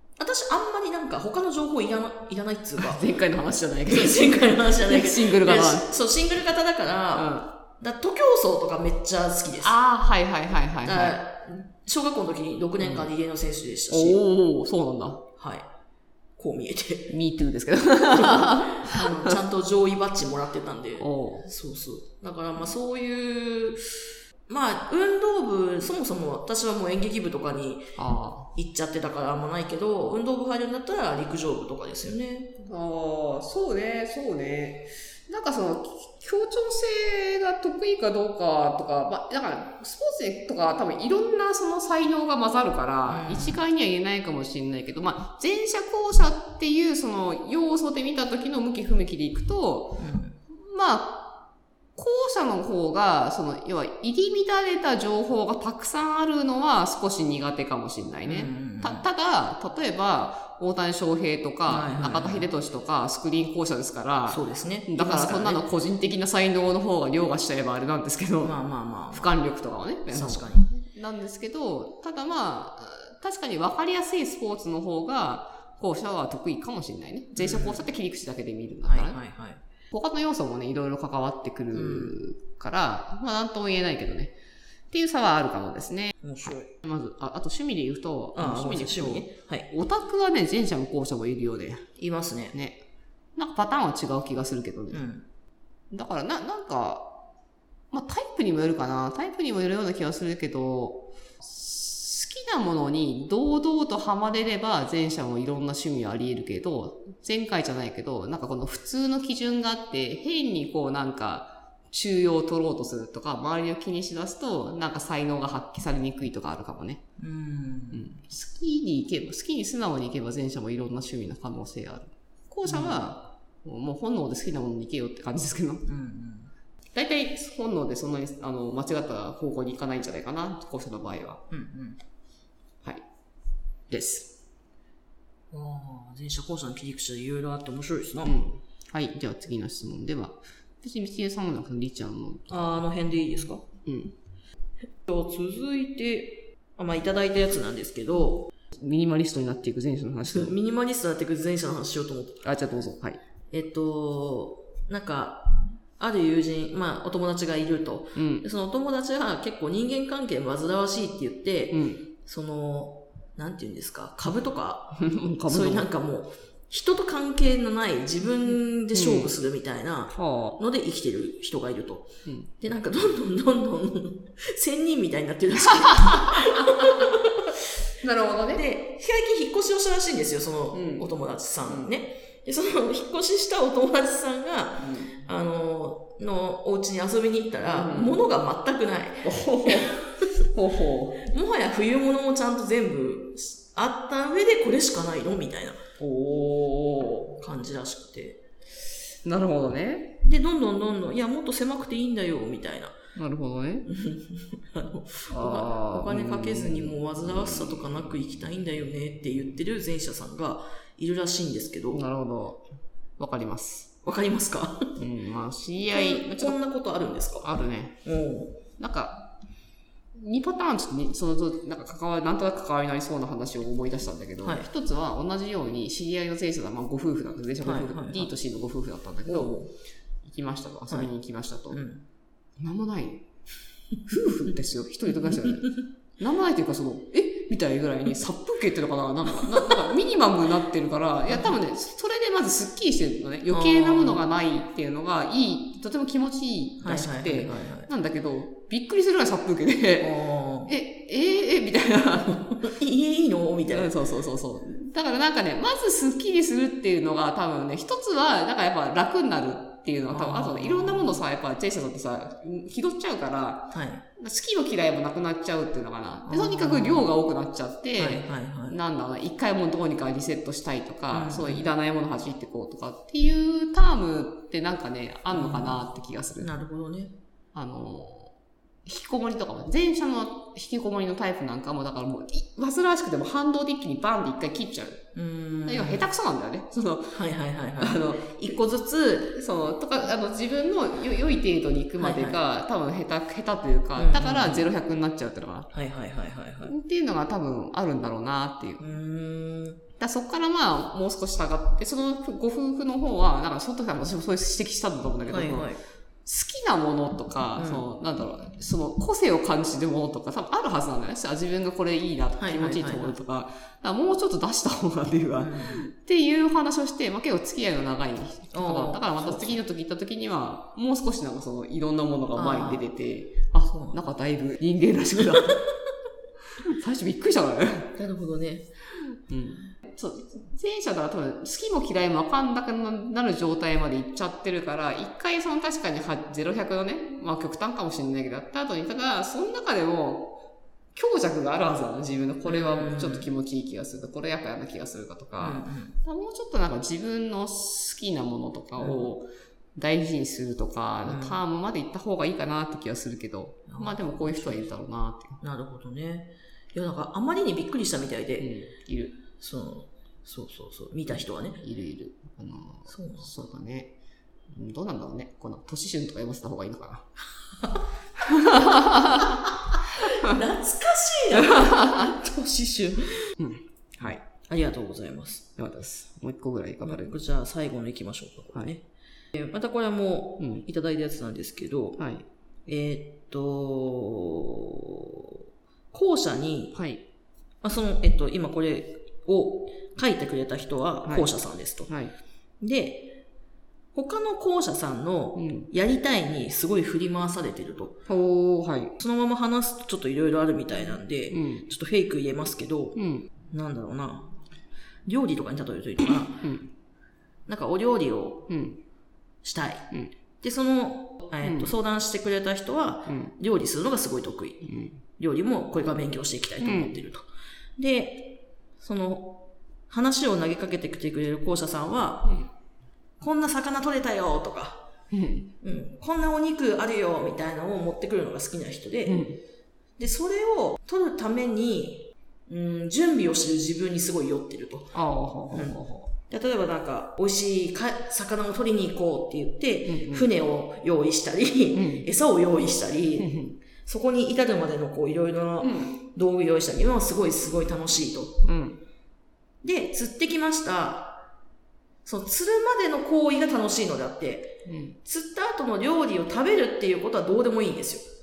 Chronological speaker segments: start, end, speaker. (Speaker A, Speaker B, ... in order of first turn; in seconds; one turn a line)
Speaker A: 0.2-3.0
Speaker B: 2.8-5.9
Speaker A: 3.9-9.8
Speaker B: 7.1-7.5
Speaker B: 9.6-11.2
Speaker A: 10.8-14.2
Speaker B: 12.8-13.1
Speaker B: 13.9-15.2
Speaker A: 15.4-15.6
Speaker A: 16.4-17.1
Speaker B: 17.1-19.4
Speaker A: 18.2-27.9
Speaker B: 21.0-21.5
Speaker B: 27.9-28.5
Speaker A: 28.6-32.5
Speaker B: 32.6-51.3
Speaker A: 43.1-43.6
Speaker A: 50.0-50.4
Speaker B: 52.0-68.5
Speaker A: 58.2-59.0
Speaker A: 61.7-62.5
Speaker A: 64.3-65.6
Speaker A: 68.4-69.4
Speaker B: 69.1-79.2
Speaker A: 70.1-70.7
Speaker A: 77.3-77.9
Speaker A: 78.8-79.6
Speaker B: 79.9-84.3
Speaker A: 81.7-82.2
Speaker B: 84.9-91.9
Speaker A: 86.2-86.7
Speaker A: 88.3-89.7
Speaker A: 92.0-92.5
Speaker B: 92.5-92.8
Speaker B: 93.3-95.0
Speaker A: 94.9-95.2
Speaker B: 95.9-97.1
Speaker B: 97.9-117.0
Speaker A: 117.2-118.1
Speaker B: 117.9-125.9
Speaker A: 122.7-123.0
Speaker A: 125.9-126.5
Speaker B: 126.9-131.4
Speaker A: 131.5-132.0
Speaker B: 133.9-134.4
Speaker A: 135.5-138.4
Speaker B: 138.2-142.8
Speaker A: 142.5-143.6
Speaker B: 143.8-144.1
Speaker A: 145.1-148.5
Speaker B: 148.7-150.5
Speaker A: 150.2-152.4
Speaker B: 152.4-153.2
Speaker A: 153.5-172.1
Speaker B: 158.1-158.4
Speaker B: 161.7-162.0
Speaker B: 164.9-165.9
Speaker B: 168.9-169.3
Speaker B: 170.1-170.6
Speaker A: 172.6-177.6
Speaker B: 175.8-177.1
Speaker B: 178.0-178.6
Speaker A: 178.5-190.1
Speaker B: 180.7-181.1
Speaker B: 181.6-181.9
Speaker B: 184.8-185.2
Speaker B: 187.6-188.2
Speaker B: 189.2-191.2
Speaker A: 191.2-195.8
Speaker B: 196.0-197.4
Speaker A: 197.4-198.4
Speaker B: 199.2-200.2
Speaker A: 200.2-202.9
Speaker B: 203.1-203.9
Speaker A: 203.9-212.0
Speaker B: 205.3-207.8
Speaker B: 211.9-212.6
Speaker B: 213.2-213.9
Speaker A: 214.0-215.0
Speaker B: 215.0-216.6
Speaker A: 215.9-217.5
Speaker B: 217.4-218.0
Speaker A: 218.0-218.6
Speaker B: 218.8-219.3
Speaker B: 220.2-229.5
Speaker A: 227.6-228.3
Speaker A: 229.2-229.7
Speaker B: 230.2-231.8
Speaker A: 231.7-232.0
Speaker B: 232.6-233.2
Speaker B: 234.1-250.1
Speaker A: 241.3-241.6
Speaker A: 243.5-244.2
Speaker A: 246.8-247.9
Speaker A: 250.0-250.7
Speaker B: 250.7-252.6
Speaker A: 252.4-253.9
Speaker B: 253.7-276.5
Speaker A: 260.1-261.2
Speaker A: 263.7-264.0
Speaker A: 266.2-267.1
Speaker A: 267.9-268.8
Speaker A: 271.1-271.7
Speaker A: 275.3-275.8
Speaker A: 276.4-277.1
Speaker B: 277.5-278.3
Speaker B: 278.9-285.0
Speaker A: 285.1-286.1
Speaker B: 285.6-287.2
Speaker A: 287.1-289.4
Speaker B: 287.8-288.6
Speaker B: 289.2-295.7
Speaker A: 292.0-292.4
Speaker A: 293.9-294.7
Speaker A: 295.7-296.7
Speaker B: 296.6-298.8
Speaker A: 298.8-299.8
Speaker B: 300.0-305.7
Speaker A: 305.3-305.8
Speaker B: 306.2-325.6
Speaker A: 307.6-307.9
Speaker A: 312.4-313.1
Speaker A: 315.4-315.8
Speaker A: 318.5-319.6
Speaker A: 322.3-322.9
Speaker A: 323.7-324.0
Speaker B: 326.6-327.9
Speaker A: 327.9-328.7
Speaker B: 329.3-340.4
Speaker B: 340.9-355.4
Speaker A: 342.4-343.3
Speaker A: 345.4-345.9
Speaker A: 348.8-349.1
Speaker A: 351.1-351.4
Speaker A: 353.7-354.7
Speaker A: 355.4-358.5
Speaker B: 358.4-359.2
Speaker A: 359.4-361.6
Speaker B: 361.6-363.9
Speaker A: 362.9-363.3
Speaker B: 364.5-367.1
Speaker B: 368.2-369.4
Speaker A: 370.0-373.3
Speaker B: 371.4-372.1
Speaker B: 373.4-374.2
Speaker A: 374.5-375.4
Speaker B: 375.6-377.1
Speaker A: 376.8-378.8
Speaker A: 379.3-382.0
Speaker B: 380.4-380.6
Speaker B: 382.0-382.2
Speaker A: 382.6-385.4
Speaker A: 385.9-386.8
Speaker B: 386.7-387.0
Speaker A: 387.6-391.9
Speaker B: 391.9-392.1
Speaker A: 392.6-393.2
Speaker A: 393.9-397.9
Speaker B: 395.4-395.7
Speaker B: 398.1-398.9
Speaker A: 399.0-403.0
Speaker B: 401.3-401.7
Speaker B: 402.9-403.3
Speaker A: 403.5-404.3
Speaker A: 405.1-406.5
Speaker B: 406.4-406.7
Speaker A: 407.5-408.5
Speaker B: 408.5-408.8
Speaker A: 409.4-409.9
Speaker A: 410.4-417.2
Speaker B: 411.4-411.7
Speaker B: 413.1-413.4
Speaker B: 414.6-415.0
Speaker B: 416.6-417.0
Speaker A: 417.8-422.4
Speaker A: 423.2-424.8
Speaker B: 425.1-425.5
Speaker A: 425.6-429.2
Speaker B: 429.1-429.4
Speaker A: 430.0-435.0
Speaker B: 434.9-436.1
Speaker A: 435.5-443.3
Speaker B: 439.8-440.3
Speaker B: 441.7-442.1
Speaker B: 443.2-443.6
Speaker A: 443.8-448.4
Speaker B: 445.6-446.0
Speaker B: 448.4-448.8
Speaker A: 449.6-451.2
Speaker A: 452.0-454.5
Speaker B: 454.6-455.0
Speaker A: 455.0-458.1